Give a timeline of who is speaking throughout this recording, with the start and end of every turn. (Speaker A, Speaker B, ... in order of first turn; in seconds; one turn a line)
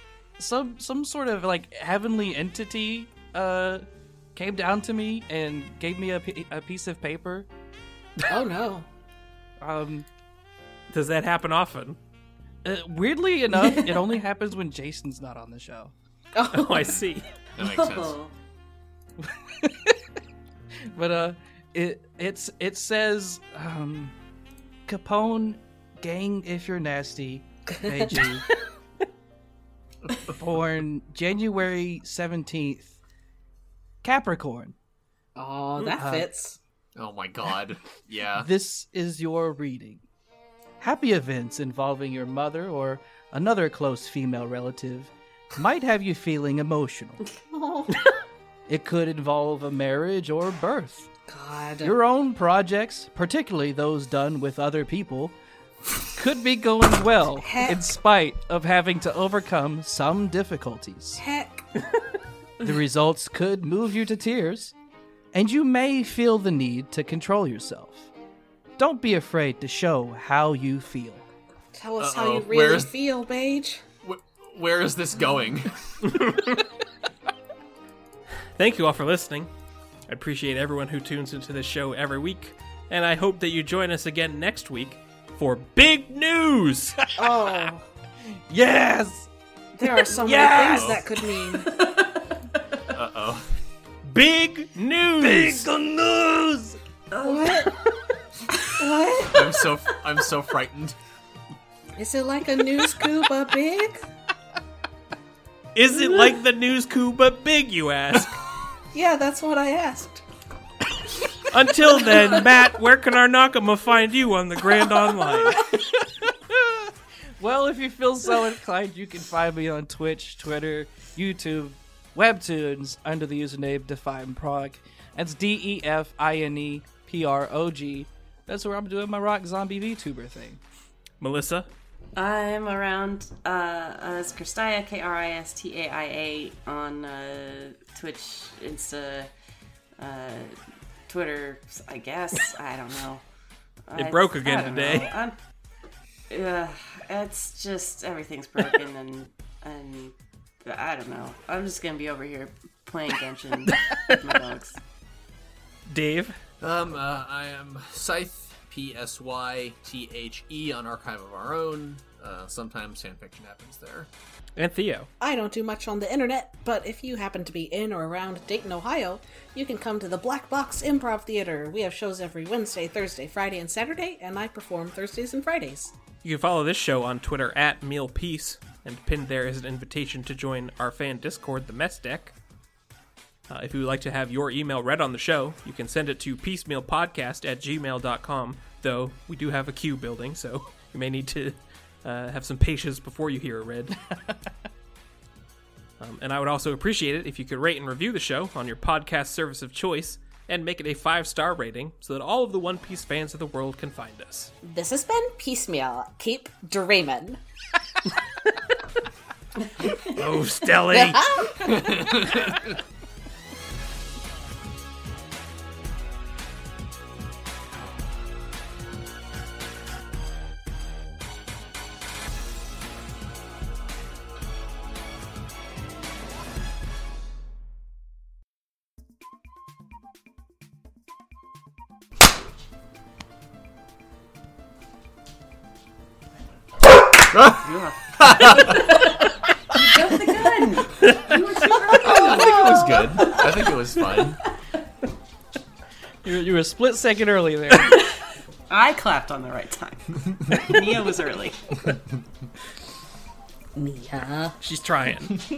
Speaker A: 0.4-7.5
Speaker B: 8.3-8.8
Speaker A: 9.6-10.0
Speaker C: 10.9-12.0
Speaker A: 12.6-15.9
Speaker B: 16.3-16.9
Speaker C: 16.5-17.2
Speaker D: 16.7-17.0
Speaker D: 17.5-18.1
Speaker E: 17.6-18.3
Speaker A: 19.2-20.0
Speaker A: 20.9-24.1
Speaker A: 24.9-28.4
Speaker B: 27.7-28.4
Speaker D: 30.0-30.3
Speaker A: 30.3-33.0
Speaker A: 34.0-34.7
Speaker B: 35.4-36.6
Speaker A: 36.0-36.3
Speaker D: 36.9-38.5
Speaker A: 38.4-40.0
Speaker A: 40.8-47.2
Speaker B: 47.5-48.1
Speaker A: 48.7-51.1
Speaker B: 51.3-52.0
Speaker A: 51.8-55.3
Speaker A: 56.1-61.2
Speaker B: 57.4-57.9
Speaker B: 61.2-61.7
Speaker A: 62.6-64.7
Speaker A: 65.3-68.1
Speaker A: 68.8-71.2
Speaker B: 71.7-73.8
Speaker D: 72.0-72.9
Speaker D: 74.0-75.7
Speaker C: 76.0-76.6
Speaker C: 78.5-79.5
Speaker C: 80.1-87.0
Speaker A: 87.0-87.5
Speaker B: 87.2-87.8
Speaker A: 88.5-89.3
Speaker B: 89.7-91.8
Speaker A: 89.8-91.0
Speaker D: 90.6-91.0
Speaker E: 91.5-92.8
Speaker D: 92.9-93.5
Speaker C: 94.0-95.7
Speaker A: 95.2-96.8
Speaker E: 97.1-98.7
Speaker B: 97.2-97.8
Speaker B: 98.8-99.7
Speaker D: 99.2-101.0
Speaker B: 102.0-104.0
Speaker C: 105.7-108.3
Speaker B: 108.9-110.2
Speaker C: 111.5-115.6
Speaker B: 112.0-112.4
Speaker A: 115.3-130.6
Speaker C: 131.2-131.7
Speaker E: 132.2-139.3
Speaker E: 140.0-140.5
Speaker E: 141.1-143.2
Speaker E: 143.9-145.4
Speaker C: 143.9-145.1
Speaker A: 144.6-145.1
Speaker E: 146.3-154.8
Speaker C: 155.9-156.4
Speaker D: 156.6-164.1
Speaker C: 164.6-165.1
Speaker B: 165.2-175.9
Speaker C: 176.2-182.3
Speaker C: 183.5-194.0
Speaker A: 194.1-194.4
Speaker C: 196.0-204.5
Speaker B: 204.6-207.4
Speaker C: 209.9-211.5
Speaker B: 210.9-212.0
Speaker D: 211.6-212.7
Speaker D: 237.3-237.7
Speaker E: 237.5-244.2
Speaker D: 238.2-239.0
Speaker D: 241.9-244.4
Speaker A: 246.2-248.0
Speaker E: 247.8-248.1
Speaker E: 248.7-251.9
Speaker B: 253.8-254.6
Speaker C: 254.6-255.4